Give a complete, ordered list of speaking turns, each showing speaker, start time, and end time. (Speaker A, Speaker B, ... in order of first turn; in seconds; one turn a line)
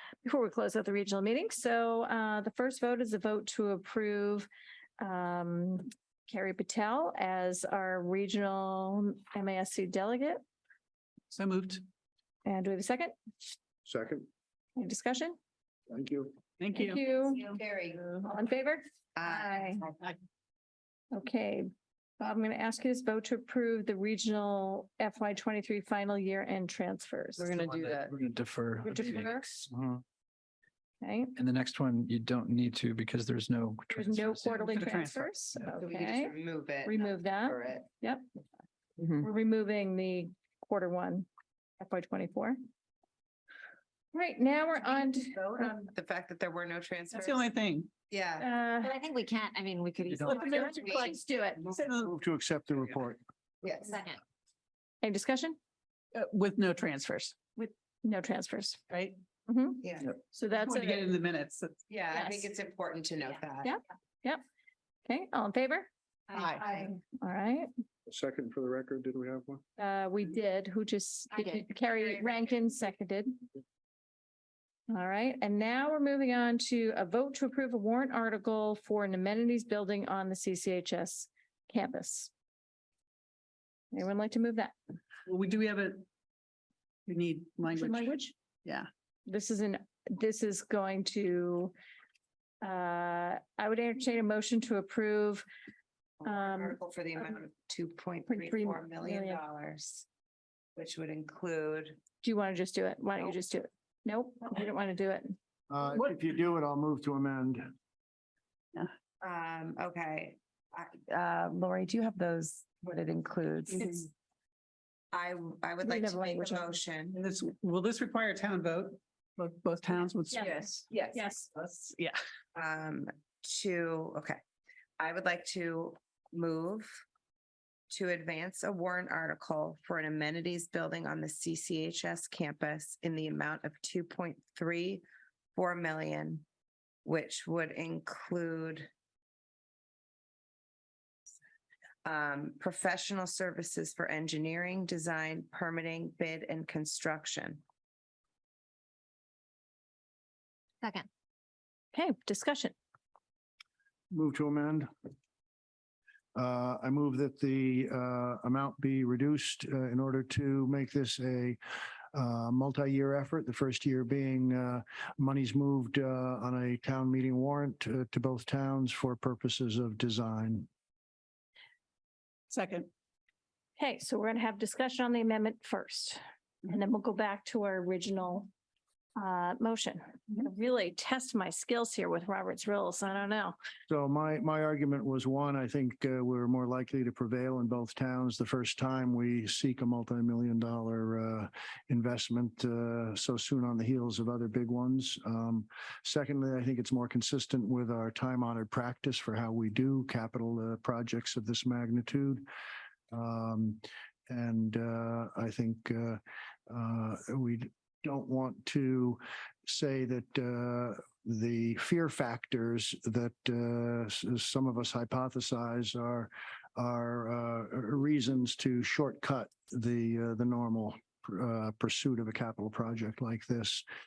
Speaker A: 0.2-4.5
Speaker A: 5.0-10.4
Speaker B: 11.3-11.8
Speaker A: 12.4-13.1
Speaker C: 13.8-14.3
Speaker A: 14.8-15.4
Speaker C: 15.9-16.3
Speaker B: 16.6-17.0
Speaker A: 16.7-17.5
Speaker D: 17.4-18.1
Speaker A: 18.2-19.8
Speaker D: 19.1-20.1
Speaker A: 21.1-21.7
Speaker A: 22.2-27.5
Speaker E: 27.4-29.9
Speaker D: 27.7-28.1
Speaker A: 28.8-29.7
Speaker A: 31.0-31.3
Speaker E: 31.4-34.6
Speaker A: 33.9-36.3
Speaker B: 34.6-35.6
Speaker D: 35.6-37.9
Speaker A: 36.9-38.2
Speaker A: 39.1-41.3
Speaker A: 41.8-42.6
Speaker A: 44.1-45.7
Speaker D: 44.8-47.5
Speaker B: 47.1-47.9
Speaker D: 48.1-48.5
Speaker A: 48.4-48.9
Speaker F: 48.8-50.7
Speaker B: 50.1-51.0
Speaker D: 50.3-51.7
Speaker A: 50.4-51.9
Speaker B: 51.8-52.1
Speaker C: 52.0-53.2
Speaker D: 53.6-54.0
Speaker F: 53.8-54.2
Speaker A: 55.0-55.6
Speaker B: 56.1-57.3
Speaker A: 57.5-58.8
Speaker B: 58.9-59.1
Speaker A: 59.5-61.0
Speaker D: 59.8-60.1
Speaker B: 60.5-61.8
Speaker D: 61.9-63.7
Speaker A: 62.1-62.5
Speaker A: 63.6-64.4
Speaker A: 65.0-65.9
Speaker F: 66.3-66.9
Speaker B: 66.4-66.6
Speaker A: 67.0-67.7
Speaker C: 68.0-69.6
Speaker A: 69.8-73.3
Speaker F: 71.4-71.6
Speaker A: 74.9-82.3
Speaker A: 83.9-84.7
Speaker B: 85.3-86.0
Speaker B: 87.1-88.9
Speaker A: 87.7-88.3
Speaker A: 89.3-91.7
Speaker A: 92.6-95.4
Speaker D: 96.2-100.1
Speaker A: 96.2-96.8
Speaker A: 98.3-99.4
Speaker D: 100.8-102.0
Speaker A: 102.2-105.3
Speaker C: 105.7-107.7
Speaker D: 109.2-114.1
Speaker D: 115.1-117.2
Speaker A: 115.8-116.8
Speaker B: 117.1-120.8
Speaker A: 120.3-120.6
Speaker D: 120.4-121.3
Speaker A: 121.1-121.5
Speaker B: 121.8-122.2
Speaker D: 122.5-124.4
Speaker D: 125.0-127.0
Speaker D: 127.9-135.0
Speaker D: 135.5-136.4
Speaker D: 137.0-138.9
Speaker D: 142.0-147.6
Speaker F: 150.8-151.1
Speaker A: 151.9-152.7
Speaker C: 154.1-154.9
Speaker C: 156.3-161.6
Speaker C: 162.1-170.7
Speaker B: 172.5-172.9
Speaker A: 173.8-178.5
Speaker A: 179.2-183.6
Speaker C: 183.9-202.4
Speaker C: 203.1-223.8